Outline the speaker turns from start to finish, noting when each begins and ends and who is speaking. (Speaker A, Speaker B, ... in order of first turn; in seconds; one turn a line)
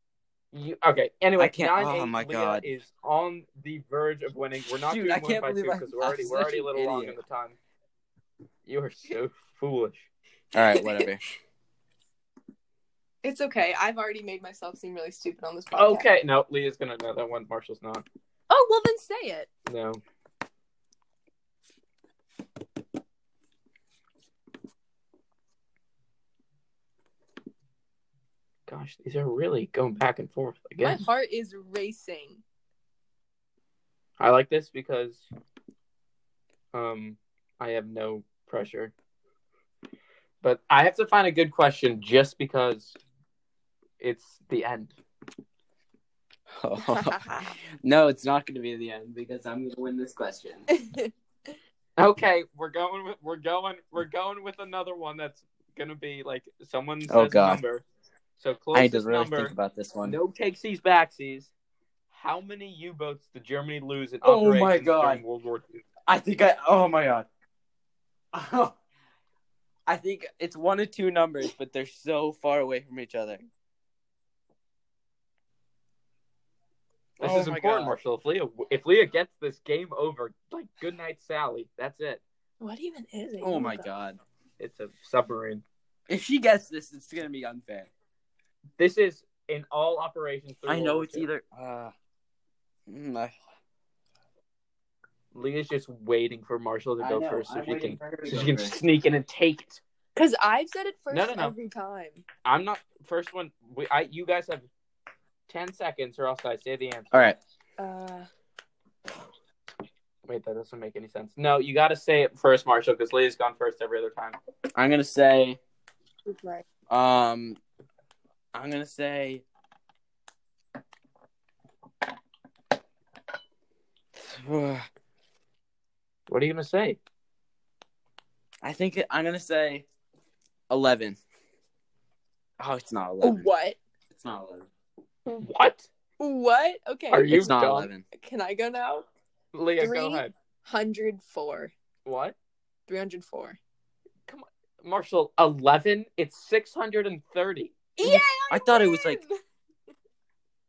Speaker A: 0.5-7.6
Speaker B: 1.4-2.7
Speaker B: 4.8-7.2
Speaker A: 8.7-10.1
Speaker B: 10.5-11.2
Speaker C: 10.6-11.1
Speaker C: 13.2-16.1
Speaker A: 15.7-18.0
Speaker C: 18.5-19.5
Speaker A: 19.7-20.0
Speaker A: 28.7-31.1
Speaker C: 30.8-32.4
Speaker A: 34.2-35.3
Speaker A: 36.7-38.9
Speaker A: 40.4-43.0
Speaker A: 44.0-45.0
Speaker B: 46.5-50.6
Speaker C: 46.9-47.5
Speaker C: 50.7-51.1
Speaker A: 52.0-57.8
Speaker B: 57.1-57.6
Speaker A: 58.4-61.5
Speaker B: 58.7-60.2
Speaker A: 62.1-65.8
Speaker B: 64.2-65.2
Speaker B: 66.1-67.3
Speaker B: 68.3-68.8
Speaker B: 69.9-73.4
Speaker B: 77.2-78.0
Speaker A: 77.2-82.2
Speaker C: 82.6-83.9
Speaker B: 83.4-84.2
Speaker A: 84.6-85.6
Speaker B: 86.1-87.9
Speaker A: 88.8-91.3
Speaker B: 90.7-91.9
Speaker B: 92.9-93.3
Speaker A: 95.3-99.8
Speaker B: 97.0-98.8
Speaker C: 100.2-102.2
Speaker A: 101.1-101.5
Speaker A: 102.4-104.7
Speaker A: 105.5-107.3
Speaker B: 107.1-107.4
Speaker C: 107.8-108.3
Speaker A: 110.2-114.4
Speaker B: 114.7-115.6
Speaker C: 116.2-116.7
Speaker B: 116.9-117.6
Speaker B: 118.5-119.4
Speaker B: 124.2-124.9
Speaker A: 126.3-127.0
Speaker B: 128.6-129.8
Speaker B: 130.7-131.2
Speaker B: 132.6-133.5
Speaker C: 133.2-133.8
Speaker B: 134.1-134.7
Speaker A: 135.2-135.9
Speaker C: 136.2-137.5
Speaker A: 137.1-137.9
Speaker B: 137.3-138.0
Speaker C: 138.1-139.1
Speaker A: 139.5-140.3
Speaker C: 139.8-141.7
Speaker A: 142.1-142.3
Speaker C: 142.9-143.6
Speaker A: 144.3-147.8
Speaker C: 147.9-149.4
Speaker B: 148.0-149.2